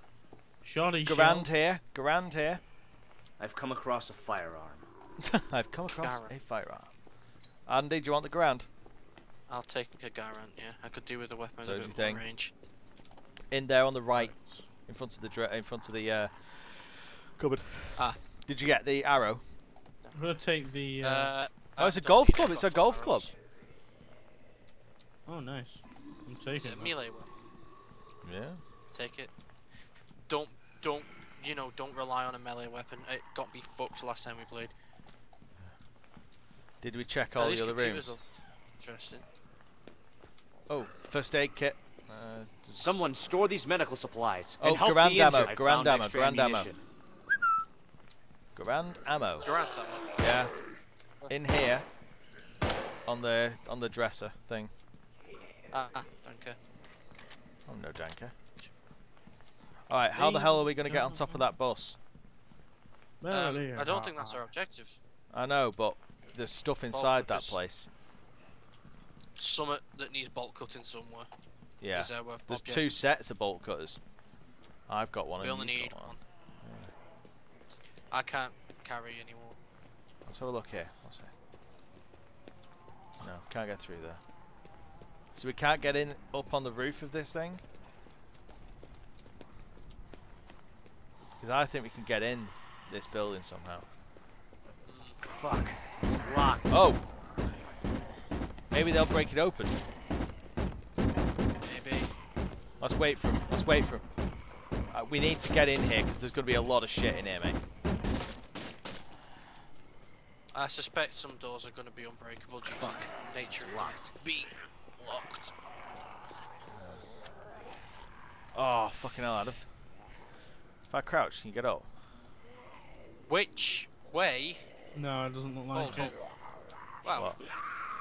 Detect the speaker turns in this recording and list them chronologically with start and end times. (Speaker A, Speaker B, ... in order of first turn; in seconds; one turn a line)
Speaker A: 0.6-1.5
Speaker B: 1.1-2.6
Speaker C: 3.4-4.9
Speaker B: 5.2-6.9
Speaker D: 5.9-6.4
Speaker B: 7.7-8.7
Speaker D: 9.5-12.5
Speaker B: 11.7-12.2
Speaker B: 13.5-19.4
Speaker A: 14.1-14.7
Speaker D: 17.9-18.2
Speaker D: 20.0-20.4
Speaker A: 20.1-21.3
Speaker D: 21.0-23.3
Speaker B: 21.8-23.3
Speaker A: 25.3-26.9
Speaker D: 26.6-27.3
Speaker B: 28.2-28.6
Speaker D: 28.9-29.3
Speaker D: 30.3-34.7
Speaker B: 36.8-38.1
Speaker D: 37.4-38.2
Speaker D: 38.7-39.2
Speaker B: 40.7-42.9
Speaker C: 42.8-46.8
Speaker B: 44.6-46.7
Speaker B: 48.6-49.5
Speaker D: 49.4-50.1
Speaker B: 50.2-50.5
Speaker B: 51.3-51.9
Speaker B: 53.1-54.7
Speaker D: 55.7-56.6
Speaker B: 57.7-58.3
Speaker B: 59.9-62.0
Speaker A: 60.1-61.5
Speaker A: 63.2-64.5
Speaker D: 63.3-65.0
Speaker B: 65.3-67.9
Speaker D: 66.9-67.6
Speaker D: 69.4-71.3
Speaker B: 71.8-74.0
Speaker D: 71.9-73.0
Speaker B: 74.9-76.9
Speaker D: 75.4-76.2
Speaker D: 78.1-79.6
Speaker B: 80.3-81.3
Speaker B: 83.2-84.2
Speaker B: 85.3-87.6
Speaker B: 91.4-93.9
Speaker D: 94.9-95.2
Speaker C: 95.2-96.8
Speaker B: 96.7-97.0
Speaker B: 98.7-99.8
Speaker D: 101.6-102.2
Speaker B: 102.8-104.0
Speaker B: 104.9-107.6
Speaker D: 110.5-115.5
Speaker C: 112.7-114.1
Speaker B: 116.7-117.0
Speaker B: 118.5-119.7
Speaker B: 120.9-121.9
Speaker D: 123.3-124.7
Speaker A: 124.9-126.2
Speaker D: 125.7-126.2
Speaker D: 127.0-127.4